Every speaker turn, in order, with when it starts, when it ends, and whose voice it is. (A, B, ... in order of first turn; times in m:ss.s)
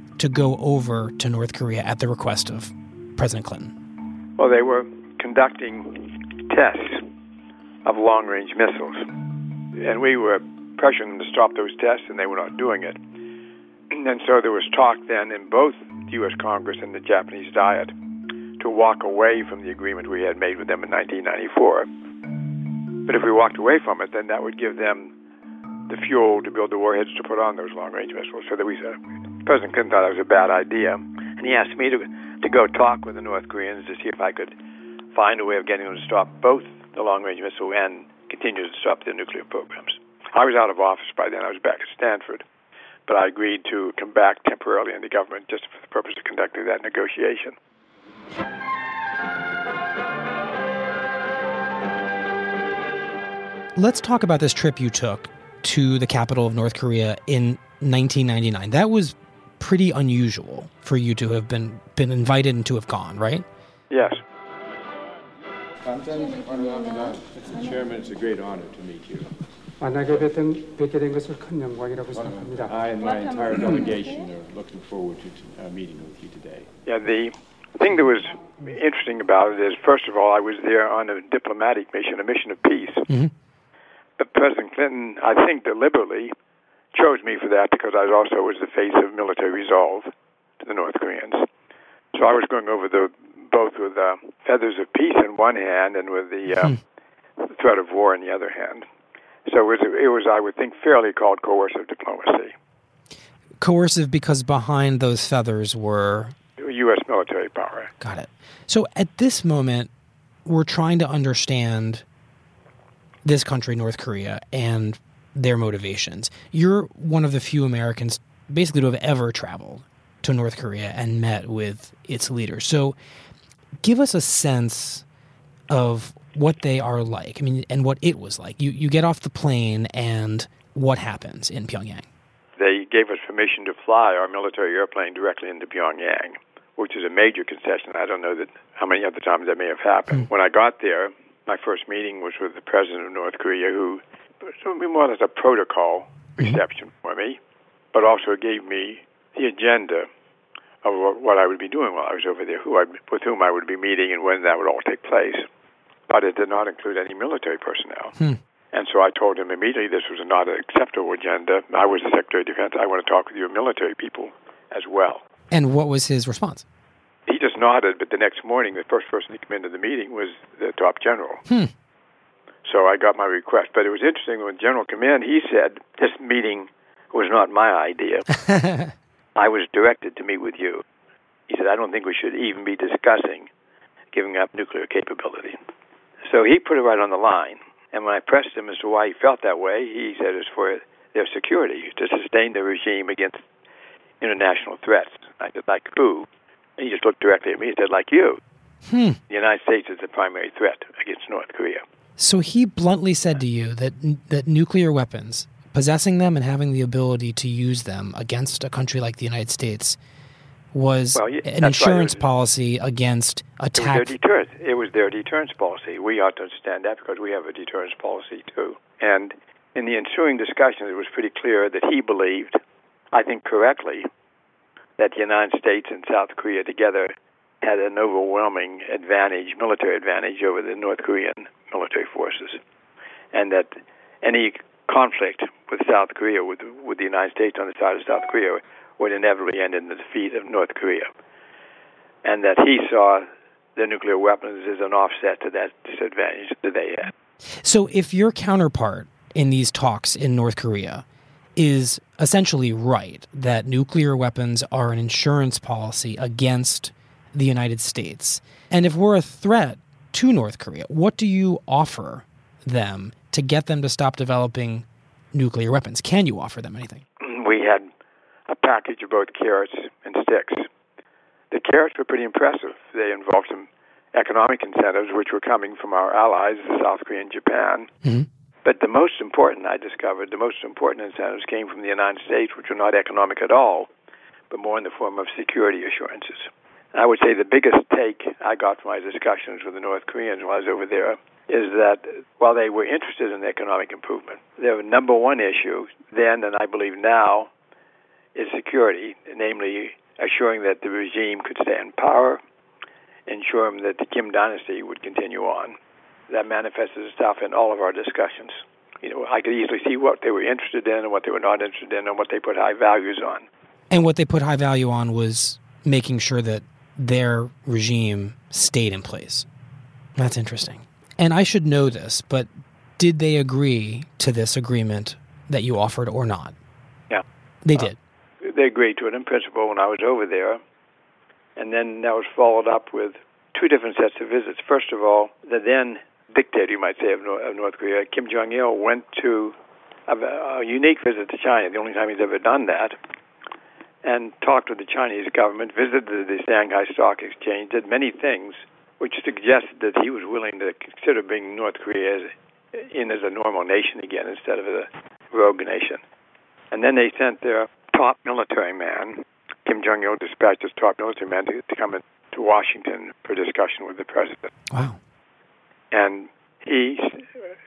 0:00.2-0:03.7 A
0:04.4-0:07.1 B
0:07.8-0:09.1 B
0:09.7-0:13.0 B
0:13.9-0:17.9 B
0:18.6-0:21.9 B
0:23.0-0:25.1 B
0:25.9-0:34.5 B
0:35.1-0:42.4 B
0:43.1-0:47.6 B
0:53.8-1:03.4 A
1:03.9-1:04.2 B
1:05.8-1:09.3 C
1:09.8-1:12.9 D
1:12.1-1:16.7 C
1:16.8-1:23.0 B
1:24.2-1:26.3 B
1:26.9-1:30.1 B
1:30.6-1:31.4 B
1:32.1-1:36.8 B
1:37.4-1:38.8 B
1:39.5-1:42.5 B
1:43.6-1:46.3 A
1:46.6-1:47.9 B
1:48.0-1:49.9 A
1:50.4-1:52.0 A
1:53.2-2:03.0 A
2:03.8-2:05.0 A
2:05.7-2:12.1 A
2:12.6-2:27.4 B
2:27.9-2:30.1 B
2:30.8-2:35.4 B
2:36.1-2:38.2 B
2:38.7-2:45.2 B
2:45.5-2:46.6 A
2:47.3-2:51.4 B
2:51.5-2:51.7 A
2:52.6-2:58.2 B
2:58.5-2:58.9 A
2:59.4-3:00.8 B
3:01.5-3:03.5 B
3:04.1-3:05.6 B
3:06.3-3:13.4 B
3:14.2-3:16.3 B
3:16.8-3:18.4 B
3:18.9-3:19.2 A
3:19.3-3:21.8 B
3:22.2-3:30.0 A
3:30.7-3:34.1 A
3:31.2-3:32.2 B
3:33.8-3:42.6 B
3:43.1-3:44.1 B
3:45.0-3:52.6 B
3:53.3-4:01.1 B
4:02.2-4:07.1 B
4:07.6-4:11.0 A
4:11.6-4:27.0 A
4:27.2-4:27.9 B
4:28.5-4:30.7 B
4:31.5-4:37.9 B
4:38.6-4:43.9 B
4:44.5-4:57.5 B
4:58.4-5:02.4 B
5:03.3-5:05.8 B
5:06.3-5:13.4 B
5:13.9-5:19.5 A
5:20.2-5:26.6 A
5:27.6-5:28.0 A
5:28.4-5:30.6 B
5:31.6-5:39.5 B
5:40.1-5:43.0 B
5:44.0-5:56.0 B
5:56.7-6:04.5 B
6:04.7-6:05.0 A
6:05.9-6:07.3 B